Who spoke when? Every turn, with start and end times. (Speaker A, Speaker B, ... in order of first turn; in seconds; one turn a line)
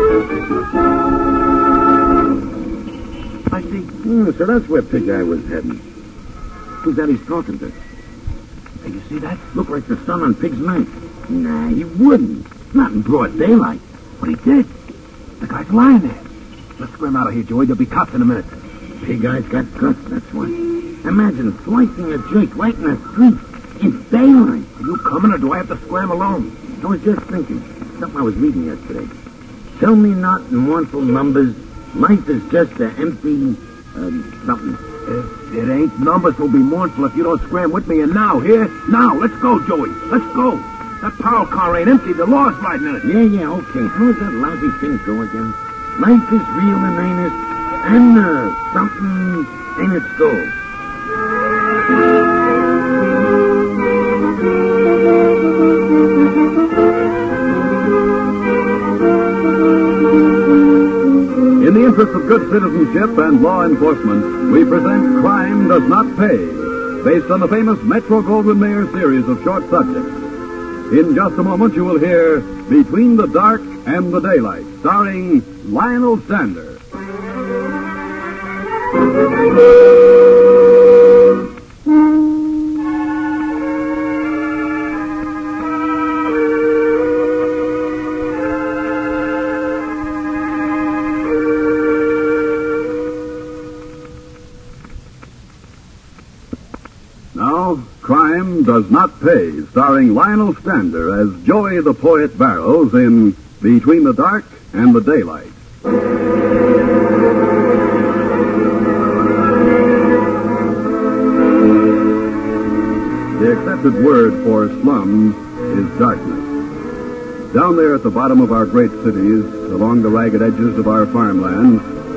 Speaker A: 3.5-3.9
Speaker B: 4.0-5.8
Speaker B: 6.8-7.7
Speaker A: 8.8-9.4
Speaker B: 9.5-13.8
Speaker A: 14.2-14.7
Speaker A: 15.4-16.2
Speaker A: 16.8-18.5
Speaker B: 19.0-24.7
Speaker A: 24.8-26.5
Speaker B: 26.8-29.1
Speaker B: 29.7-34.8
Speaker A: 35.1-43.0
Speaker B: 43.0-50.5
Speaker C: 61.6-70.2
Speaker C: 70.9-76.8
Speaker C: 97.3-105.5
Speaker C: 113.3-116.5
Speaker C: 117.5-121.8